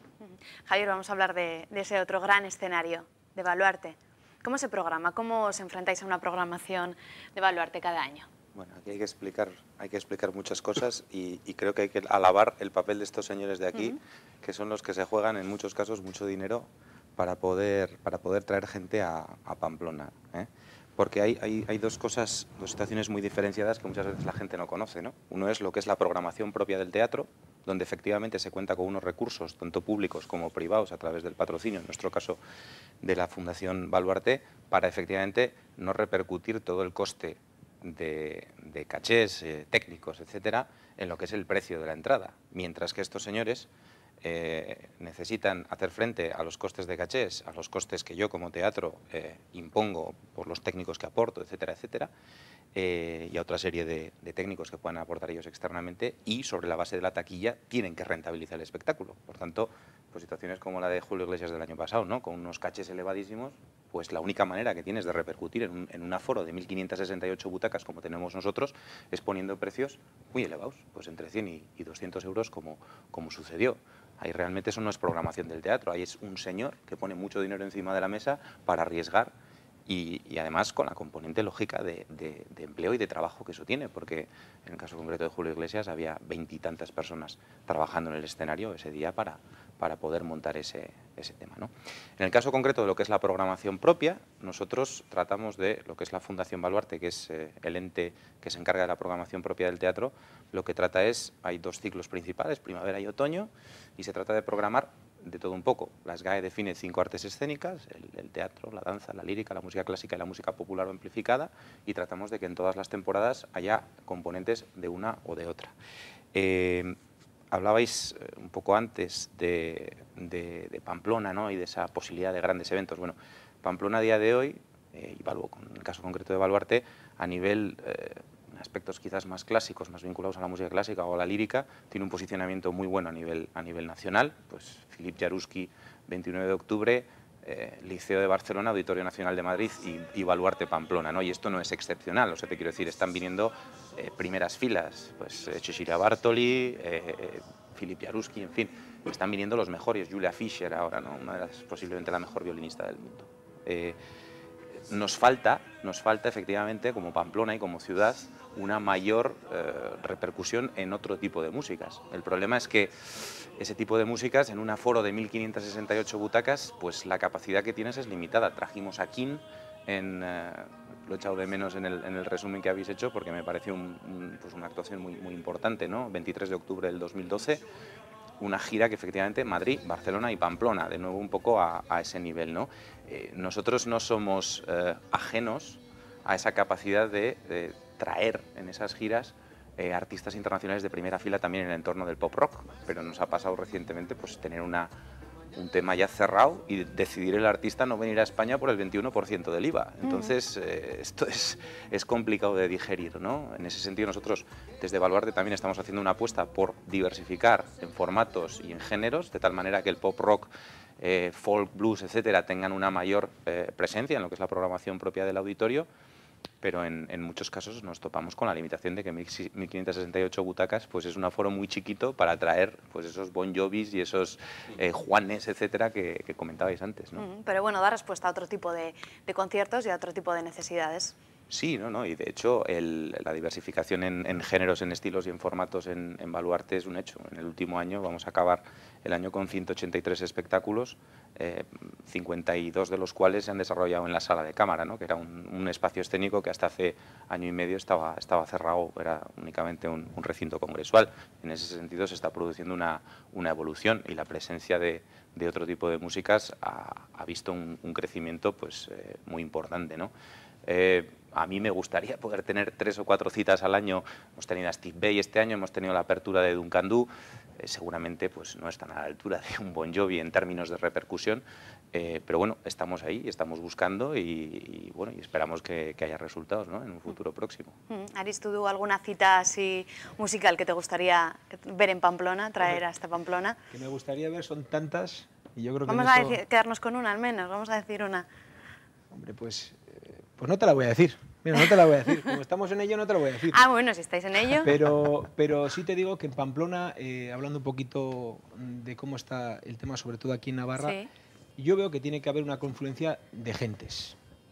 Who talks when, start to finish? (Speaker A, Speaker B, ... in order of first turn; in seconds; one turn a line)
Speaker A: 0.2-8.3
Speaker B: 8.6-32.4
Speaker B: 33.0-43.7
Speaker B: 44.2-52.1
Speaker B: 52.7-79.3
Speaker B: 79.9-115.7
Speaker B: 116.3-117.0
Speaker B: 117.5-154.0
Speaker B: 154.9-162.9
Speaker B: 163.6-177.6
Speaker B: 178.4-194.9
Speaker B: 195.6-215.9
Speaker A: 200.0-200.3
Speaker B: 216.6-227.2
Speaker A: 227.2-231.1
Speaker B: 231.5-260.1
Speaker B: 260.7-277.7
Speaker A: 277.9-283.6
Speaker C: 283.7-286.4
Speaker A: 285.9-288.3
Speaker C: 289.1-293.6
Speaker A: 293.5-294.7
Speaker C: 294.6-301.0
Speaker A: 300.8-301.1
Speaker C: 301.6-304.2